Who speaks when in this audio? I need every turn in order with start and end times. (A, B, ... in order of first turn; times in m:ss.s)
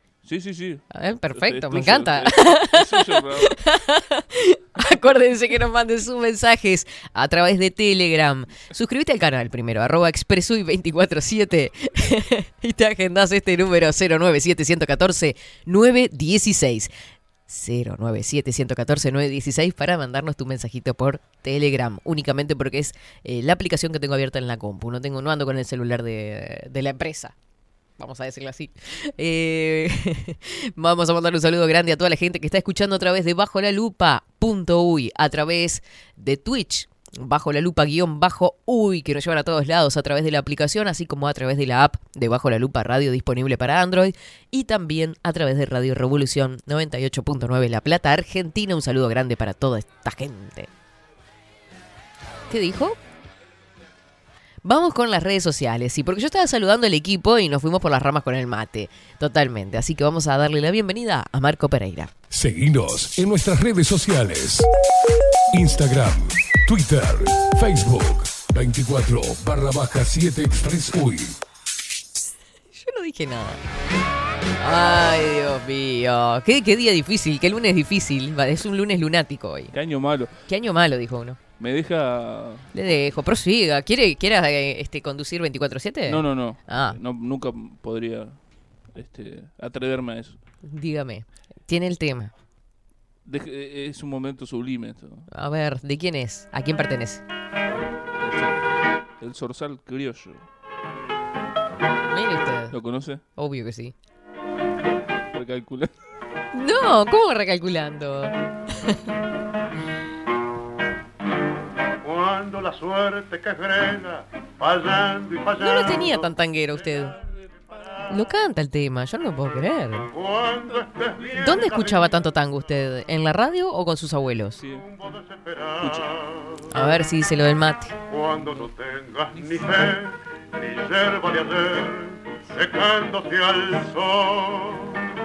0:00.2-0:03.6 A
0:00.9-0:16.9 B
0:17.5-0:27.3 B
0:28.0-0:50.7 B
0:52.5-0:53.0 B
0:54.6-1:02.1 B
1:02.3-1:04.7 C
1:05.5-1:11.4 C
1:12.7-1:13.6 B
1:14.6-1:19.7 B
1:19.7-1:20.3 A
1:20.5-1:21.4 B
1:21.6-1:22.7 A
1:22.7-1:27.0 B
1:26.1-1:28.4 A
1:28.9-1:30.4 A
1:30.6-1:32.3 B
1:33.2-1:35.3 A
1:35.3-1:37.2 B
1:38.2-1:38.6 A
1:39.2-1:40.4 A
1:42.1-1:42.8 B
1:42.7-1:43.2 A
1:43.4-1:43.9 B
1:45.3-1:45.9 A
1:46.5-1:49.0 B
1:52.0-1:56.3 D
1:55.6-1:57.2 B
1:57.7-1:58.0 D
1:58.1-2:00.1 B
2:00.1-2:02.2 D
2:01.4-2:04.6 B
2:04.6-2:04.8 A
2:04.7-2:06.7 D
2:06.7-2:07.9 B
2:08.1-2:15.0 D
2:08.4-2:08.7 A
2:09.3-2:09.8 A